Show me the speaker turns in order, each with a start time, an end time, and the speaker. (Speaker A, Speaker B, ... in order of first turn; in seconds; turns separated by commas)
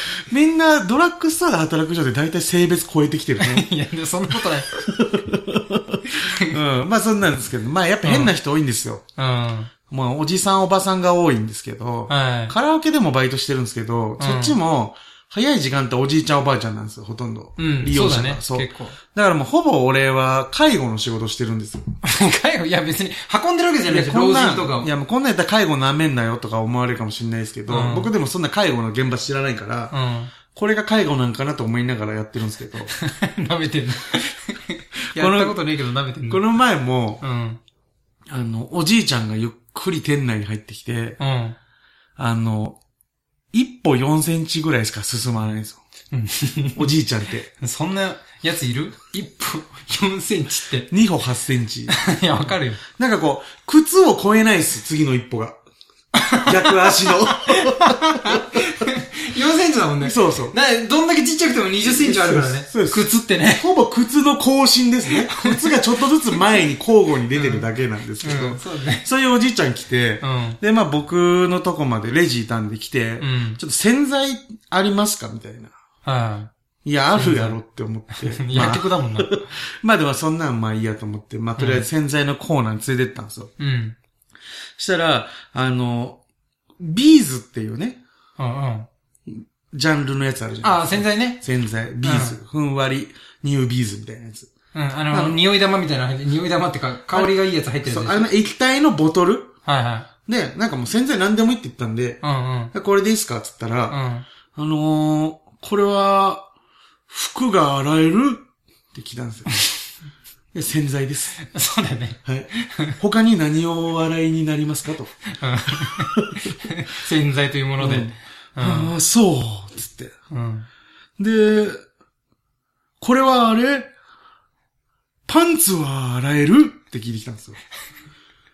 Speaker A: 0.1-3.7, Speaker B: 3.4-4.7, Speaker A: 4.8-9.0, Speaker B: 6.1-6.5, Speaker B: 8.0-8.3, Speaker B: 9.2-9.7, Speaker A: 9.9-22.0, Speaker B: 12.1-12.5, Speaker B: 14.2-14.6, Speaker B: 17.6-18.9, Speaker B: 22.0-24.9, Speaker A: 23.9-29.9, Speaker B: 27.7-28.1, Speaker B: 29.9-30.3, Speaker A: 30.5-32.9, Speaker B: 33.0-36.5, Speaker A: 35.1-35.6, Speaker A: 36.3-37.2, Speaker B: 37.2-37.6, Speaker A: 38.3-41.2, Speaker B: 41.2-41.6, Speaker A: 42.2-42.8, Speaker A: 43.5-45.8, Speaker B: 46.1-46.9, Speaker A: 46.7-47.5, Speaker B: 47.6-50.9, Speaker A: 50.9-52.0, Speaker B: 51.9-52.8, Speaker A: 53.0-55.6, Speaker B: 56.1-63.6, Speaker A: 56.4-58.6, Speaker A: 60.0-60.5, Speaker A: 61.9-75.7, Speaker B: 65.1-65.8, Speaker B: 67.3-67.7, Speaker B: 68.2-69.0, Speaker B: 70.2-70.6, Speaker B: 73.2-73.6, Speaker B: 76.0-76.5, Speaker A: 76.8-83.5, Speaker B: 77.2-77.6, Speaker B: 78.1-79.4, Speaker B: 81.6-81.8, Speaker B: 83.6-84.0, Speaker A: 84.8-86.2, Speaker A: 86.8-88.0, Speaker B: 88.4-88.9, Speaker A: 89.3-94.5, Speaker B: 90.6-91.4, Speaker B: 92.0-92.3, Speaker B: 94.7-98.3, Speaker A: 95.1-95.4, Speaker A: 97.1-99.5, Speaker B: 99.7-100.1, Speaker A: 100.2-104.0, Speaker B: 102.2-102.7, Speaker B: 103.9-104.2, Speaker A: 104.5-106.5, Speaker A: 107.1-109.6, Speaker A: 110.5-111.4, Speaker B: 111.4-113.0, Speaker A: 112.2-115.2, Speaker B: 115.3-118.9, Speaker A: 115.7-116.7, Speaker A: 117.8-120.1, Speaker B: 120.3-120.7, Speaker A: 121.2-121.8, Speaker A: 123.0-123.9, Speaker A: 125.3-127.6